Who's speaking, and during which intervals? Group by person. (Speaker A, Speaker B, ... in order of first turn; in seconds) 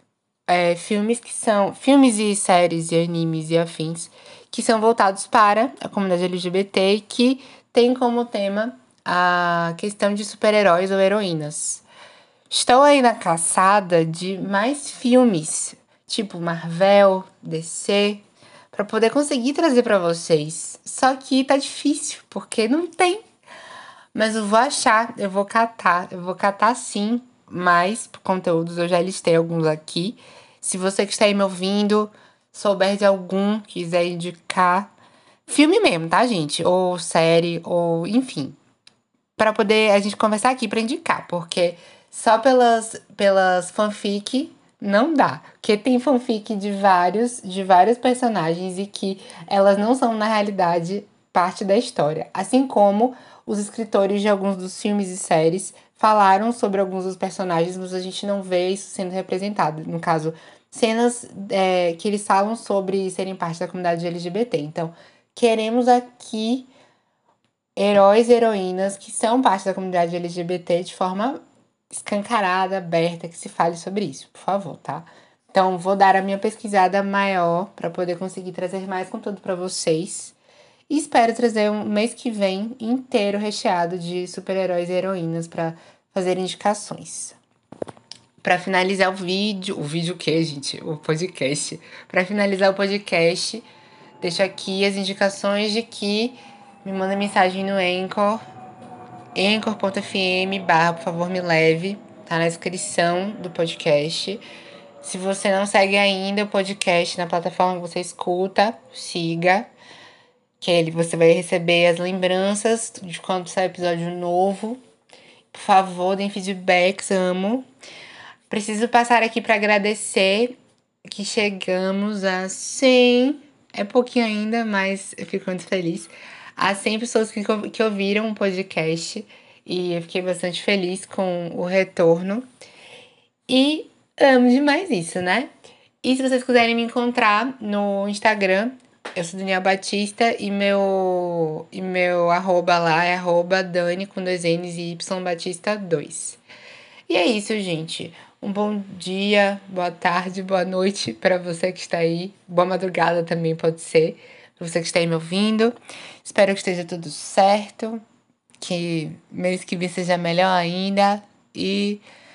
Speaker A: 0.5-11.8, 12.5-23.2, 24.1-34.9, 35.5-38.6, 39.4-66.7, 67.8-71.4, 71.9-80.4, 80.9-87.4, 88.4-93.7, 94.2-98.4, 99.3-104.4, 105.0-109.7, 110.6-114.8, 115.5-117.7, 118.5-120.6, 121.1-132.5, 133.5-135.5, 136.0-146.4, 147.1-158.0, 158.6-162.0